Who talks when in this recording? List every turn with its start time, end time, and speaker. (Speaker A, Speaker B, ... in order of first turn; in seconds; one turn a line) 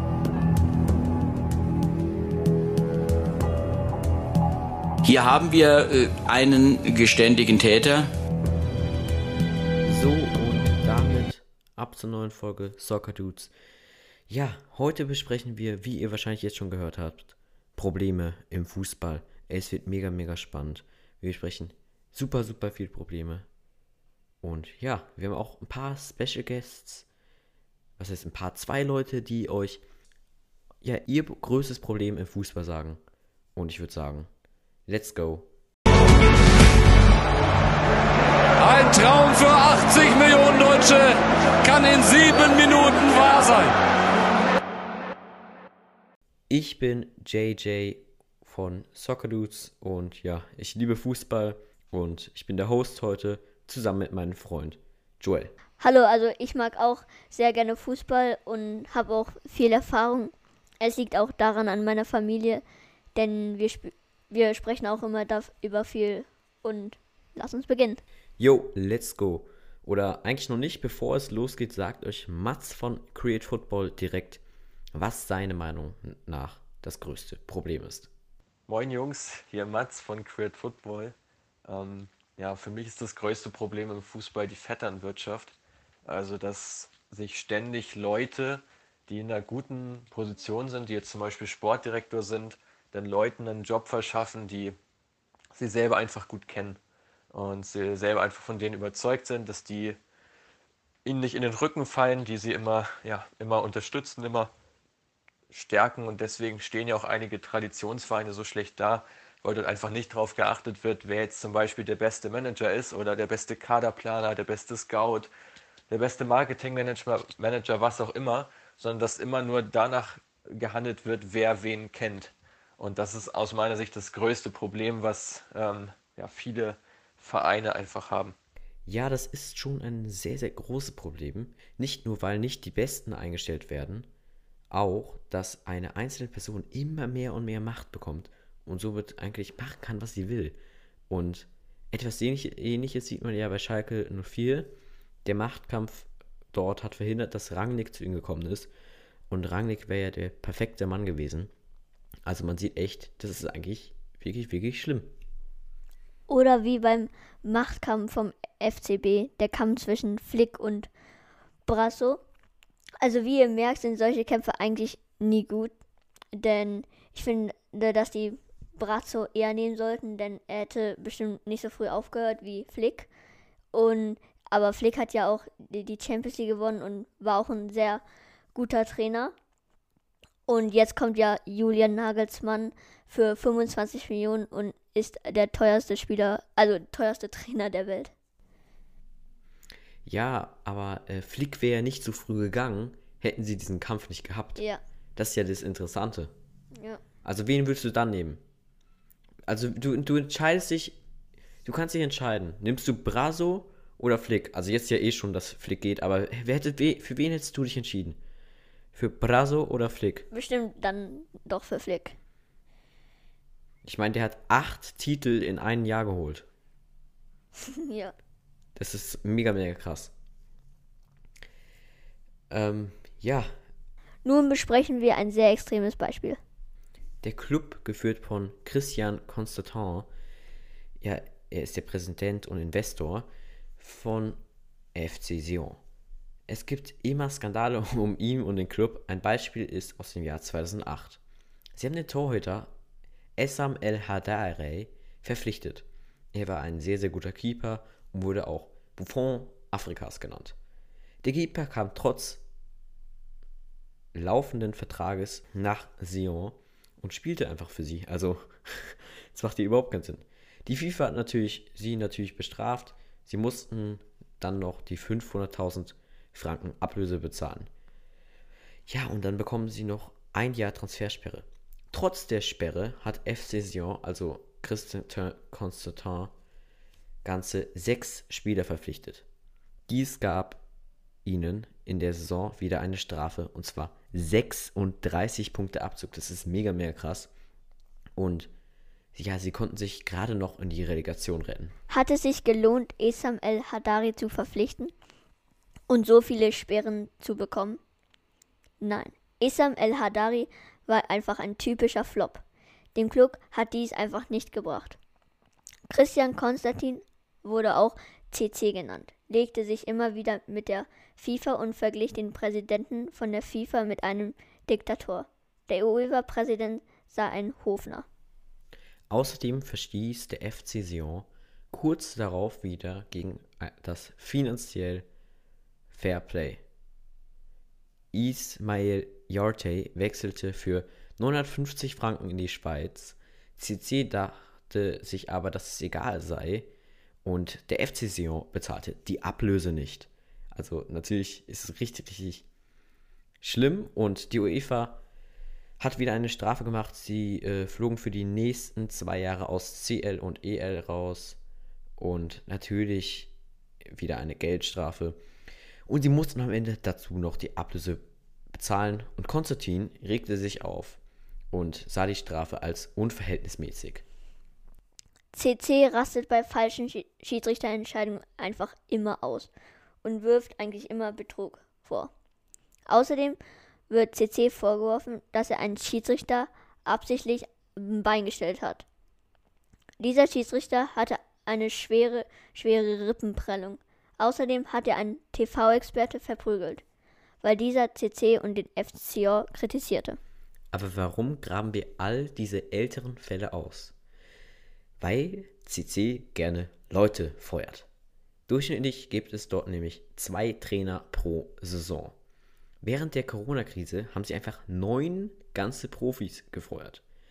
Speaker A: 5.0-8.1
Speaker B: 9.8-13.5
Speaker B: 14.3-23.5
Speaker B: 24.4-27.1
Speaker B: 28.0-29.8
Speaker B: 30.8-33.0
Speaker B: 33.6-34.3
Speaker B: 34.9-35.5
Speaker C: 38.6-43.8
Speaker B: 46.5-55.5
Speaker D: 55.8-62.6
Speaker D: 63.1-68.0
Speaker B: 68.4-74.4
Speaker B: 74.9-78.1
Speaker E: 78.7-85.5
Speaker E: 86.0-94.8
Speaker E: 95.5-96.8
Speaker E: 97.3-100.0
Speaker E: 101.0-104.5
Speaker E: 105.5-115.3
Speaker E: 115.9-128.3
Speaker B: 128.9-134.1
Speaker B: 134.7-140.6
Speaker B: 141.1-144.7
Speaker B: 145.2-148.7
Speaker B: 149.3-151.5
Speaker B: 152.3-155.1
Speaker D: 156.3-160.9
Speaker D: 161.7-162.2
Speaker D: 163.0-165.7
Speaker D: 166.3-173.1
Speaker D: 173.7-178.0
Speaker D: 178.6-179.3
Speaker D: 180.5-188.1
Speaker B: 190.1-194.6
Speaker B: 195.2-196.3
Speaker B: 197.2-198.4
Speaker B: 199.5-201.0
Speaker B: 201.7-208.2
Speaker B: 208.9-210.3
Speaker D: 210.3-212.2
Speaker B: 213.8-216.5
Speaker D: 217.6-218.1
Speaker B: 218.8-220.1
Speaker B: 222.5-223.5
Speaker D: 224.2-226.4
Speaker B: 227.2-230.1
Speaker B: 231.0-233.3
Speaker B: 233.8-234.4
Speaker B: 234.9-235.8
Speaker B: 236.5-241.2
Speaker B: 241.8-242.7
Speaker B: 243.4-250.6
Speaker B: 251.2-252.4
Speaker B: 254.1-267.7
Speaker B: 268.9-276.3
Speaker B: 277.2-279.2
Speaker B: 279.9-280.6
Speaker B: 281.2-287.3
Speaker B: 288.2-288.5
Speaker B: 289.1-291.8
Speaker D: 291.9-294.9
Speaker D: 295.9-297.8
Speaker D: 298.8-302.4
Speaker D: 303.0-305.0
Speaker D: 305.9-318.1
Speaker B: 319.1-325.1
Speaker B: 325.9-326.6
Speaker B: 328.1-336.7
Speaker B: 337.2-342.5
Speaker B: 343.4-345.0
Speaker B: 345.8-351.4
Speaker B: 352.0-353.3
Speaker B: 353.9-355.2
Speaker B: 355.9-361.0
Speaker B: 361.5-364.1
Speaker D: 365.3-369.5
Speaker D: 370.0-372.1
Speaker D: 372.9-373.4
Speaker D: 373.9-378.9
Speaker D: 380.0-386.8
Speaker D: 387.4-390.2
Speaker B: 390.7-393.9
Speaker B: 395.0-397.9
Speaker B: 398.5-402.1
Speaker B: 402.8-407.0